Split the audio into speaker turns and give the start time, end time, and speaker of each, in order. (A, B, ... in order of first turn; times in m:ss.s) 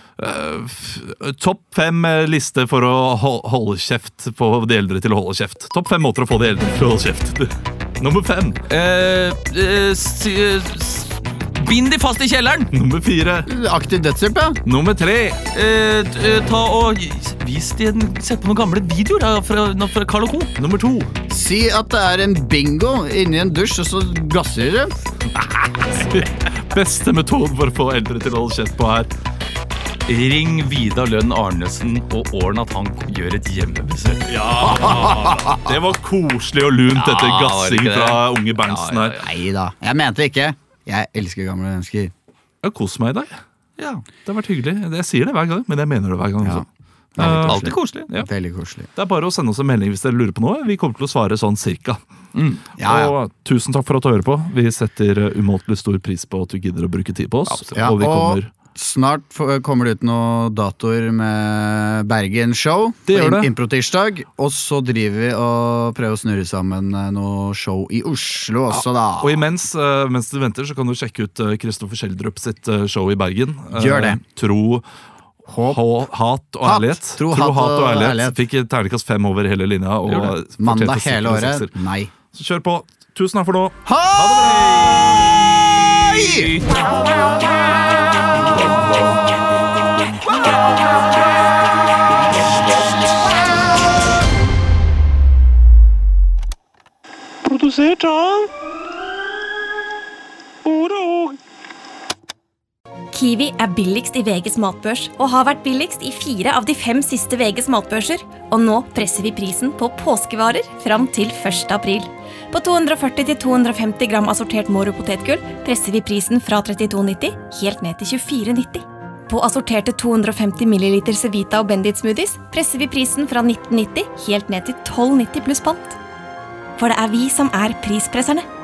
0:00.2-0:08.6 A
0:08.7-0:12.7 B
0:12.7-0:13.5 A
0:13.4-0:14.6 C
0:14.6-0:15.4 A
0:15.5-0:20.5 B
0:20.6-0:21.1 A
0:21.3-0:24.9 C
0:25.9-0:29.1 A
0:30.1-0:34.3 B
0:34.3-0:39.2 A
0:34.8-0:35.5 C
0:36.9-0:39.2 B
0:39.2-0:42.1 C
0:42.6-0:43.4 A
0:43.8-0:44.0 B
0:44.2-0:48.3 A
0:47.2-0:48.9 C
0:47.2-0:48.1 B
0:48.9-0:52.0 A
0:52.3-0:52.6 B
0:52.8-0:53.2 C
0:52.8-0:58.5 A
0:57.4-0:57.9 B
0:57.7-1:09.4 C
1:03.0-1:03.5 A
1:08.7-1:14.8 A
1:13.7-1:14.2 C
1:15.5-1:16.0 C
1:15.6-1:21.7 A
1:16.6-1:18.4 C
1:20.5-1:22.1 C
1:22.3-1:25.3 A
1:23.8-1:26.5 C
1:26.3-1:26.9 A
1:28.6-1:29.0 A
1:37.5-1:38.4 A
1:40.6-1:41.3 A
1:43.1-2:06.0 D
2:06.8-2:08.4 D